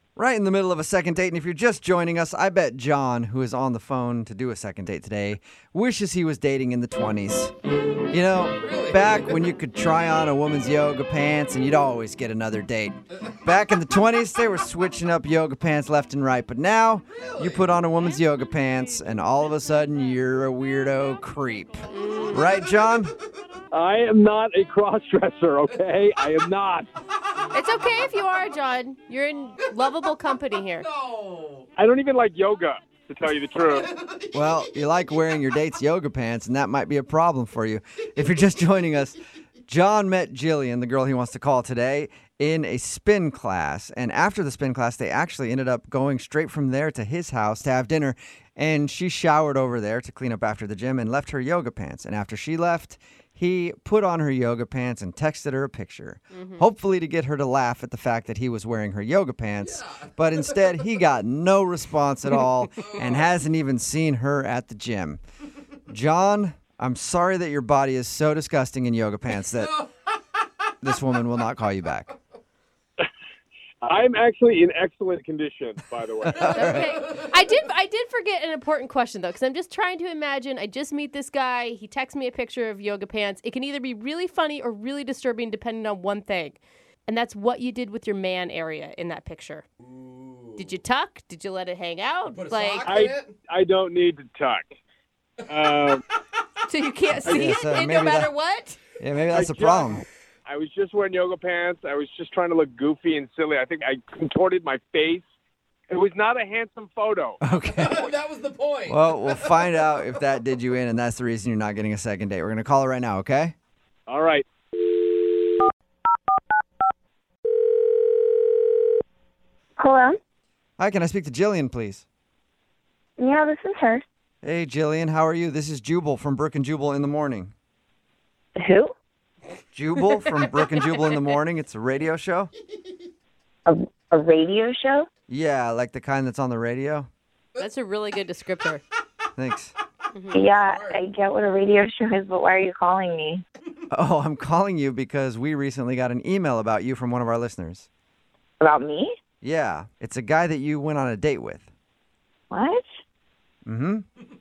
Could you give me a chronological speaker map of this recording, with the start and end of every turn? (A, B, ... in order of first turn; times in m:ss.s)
0:00.2-0:07.5 A
0:08.1-0:23.1 A
0:08.6-0:09.4 B
0:17.2-0:17.6 B
0:21.9-0:22.6 C
0:23.7-0:26.9 D
0:27.5-0:30.9 C
0:30.8-0:31.7 B
0:31.8-0:33.9 D
0:33.7-0:34.6 B
0:34.3-1:05.2 A
0:56.3-0:56.6 C
0:59.6-1:00.1 B
1:02.9-1:03.2 B
1:05.9-1:09.7 A
1:09.6-1:10.1 B
1:10.8-1:12.1 A
1:13.8-1:16.5 D
1:16.2-1:17.0 A
1:16.4-1:17.2 B
1:16.5-1:29.6 C
1:29.8-1:30.8 B
1:30.6-1:33.1 C
1:32.3-1:33.4 B
1:32.8-1:34.6 D
1:35.4-1:35.8 B
1:35.5-1:36.0 D
1:36.6-1:38.8 C
1:37.2-1:37.5 D
1:37.3-1:38.3 A
1:39.0-1:40.0 A
1:39.3-1:45.2 D
1:45.9-1:47.4 D
1:47.4-1:48.1 A
1:47.7-1:49.6 B
1:48.9-1:53.5 A
1:54.1-1:55.0 D
1:59.8-2:00.2 E
2:00.8-2:02.0 A
2:03.2-2:04.0 E
2:04.4-2:07.5 A
2:08.6-2:08.9 E
2:09.7-2:12.5 A
2:13.6-2:15.1 E
2:15.3-2:17.1 A
2:17.6-2:18.8 C
2:19.3-2:19.7 A
2:20.1-2:20.5 C
2:20.3-2:23.4 E
2:20.4-2:21.0 B
2:23.9-2:27.9 A
2:28.6-2:29.1 E
2:29.4-2:31.7 A
2:32.5-2:32.8 E
2:33.6-2:34.0 A